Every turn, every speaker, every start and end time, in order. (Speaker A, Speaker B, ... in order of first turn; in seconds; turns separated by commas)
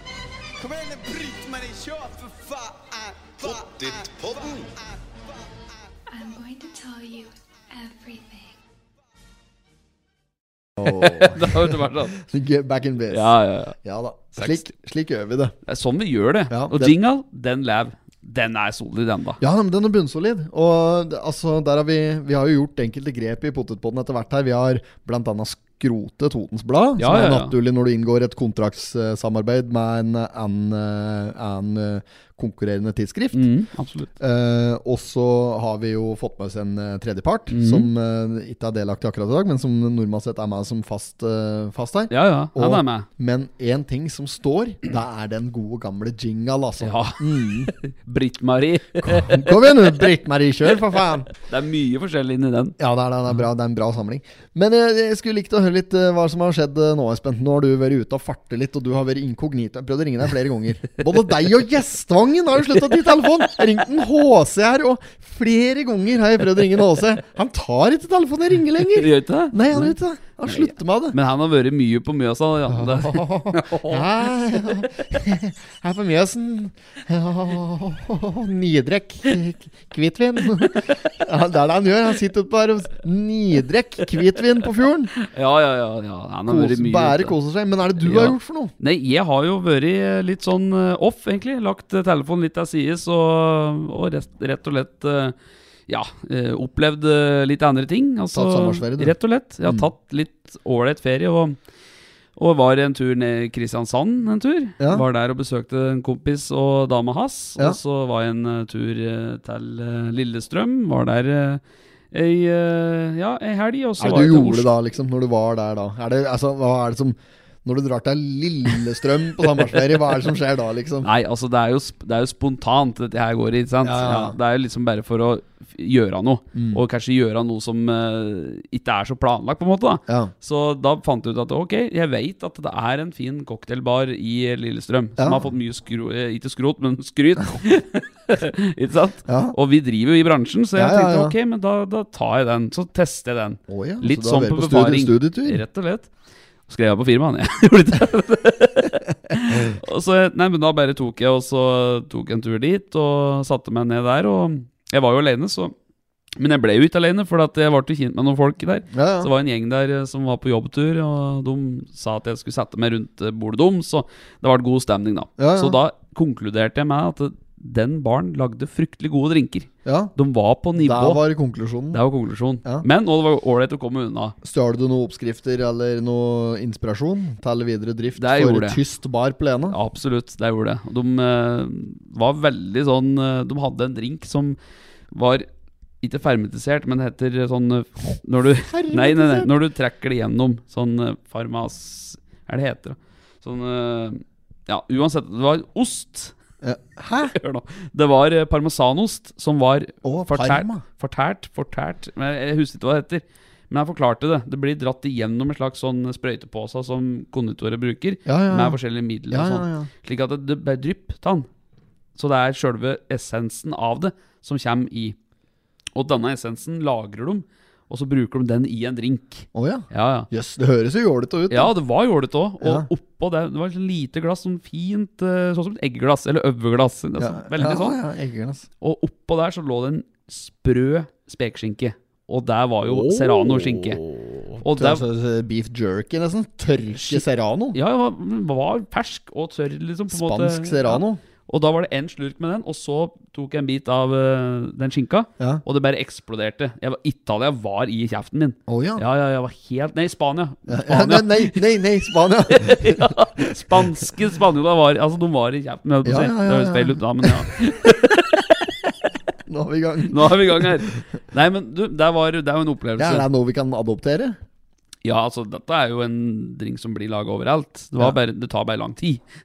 Speaker A: 0.6-5.7, Speaker B: 6.1-8.6, Speaker C: 10.8-15.5, Speaker D: 10.8-12.2, Speaker D: 13.1-13.8, Speaker D: 14.4-14.7, Speaker D: 15.7-19.4, Speaker C: 16.5-16.9, Speaker C: 19.4-33.5, Speaker D: 27.0-27.5, Speaker D: 33.3-34.1, Speaker C: 34.2-47.7, Speaker D: 37.5-37.9, Speaker D: 42.1-43.1, Speaker D: 46.8-49.9, Speaker C: 49.0-51.3, Speaker D: 51.4-52.8, Speaker C: 52.8-71.2, Speaker D: 68.9-74.1, Speaker C: 72.7-85.1, Speaker D: 85.2-87.3, Speaker C: 86.5-88.7, Speaker D: 88.0-95.3, Speaker D: 95.9-101.6, Speaker C: 98.3-99.1, Speaker D: 102.4-114.7, Speaker C: 114.0-121.1, Speaker D: 121.0-146.1, Speaker C: 123.8-124.4, Speaker C: 126.5-126.8, Speaker C: 135.2-135.4, Speaker C: 139.3-139.6, Speaker C: 140.8-141.3, Speaker C: 143.7-145.6, Speaker D: 146.7-155.7, Speaker D: 156.4-171.2, Speaker C: 158.9-159.3, Speaker C: 165.4-165.8, Speaker C: 169.8-170.1, Speaker C: 170.8-172.0, Speaker D: 171.9-174.4, Speaker C: 174.4-179.8, Speaker D: 178.2-178.8, Speaker D: 179.7-184.6, Speaker D: 185.1-185.5, Speaker D: 186.0-196.3, Speaker C: 188.6-189.5, Speaker C: 196.6-197.3, Speaker D: 197.2-211.5, Speaker C: 200.0-200.8, Speaker C: 208.3-208.8, Speaker C: 209.3-209.9, Speaker D: 212.2-215.2, Speaker D: 215.9-220.3, Speaker C: 219.6-221.7, Speaker D: 221.5-228.0, Speaker C: 222.6-222.9, Speaker C: 227.2-228.7, Speaker D: 228.8-234.0, Speaker C: 232.8-237.8, Speaker D: 234.6-235.0, Speaker D: 236.9-251.6, Speaker C: 240.1-241.2, Speaker C: 248.7-249.0, Speaker C: 250.7-254.0, Speaker D: 252.5-258.4, Speaker C: 256.1-257.5, Speaker C: 259.5-261.0, Speaker D: 260.1-263.3, Speaker C: 263.0-264.4, Speaker D: 265.1-269.2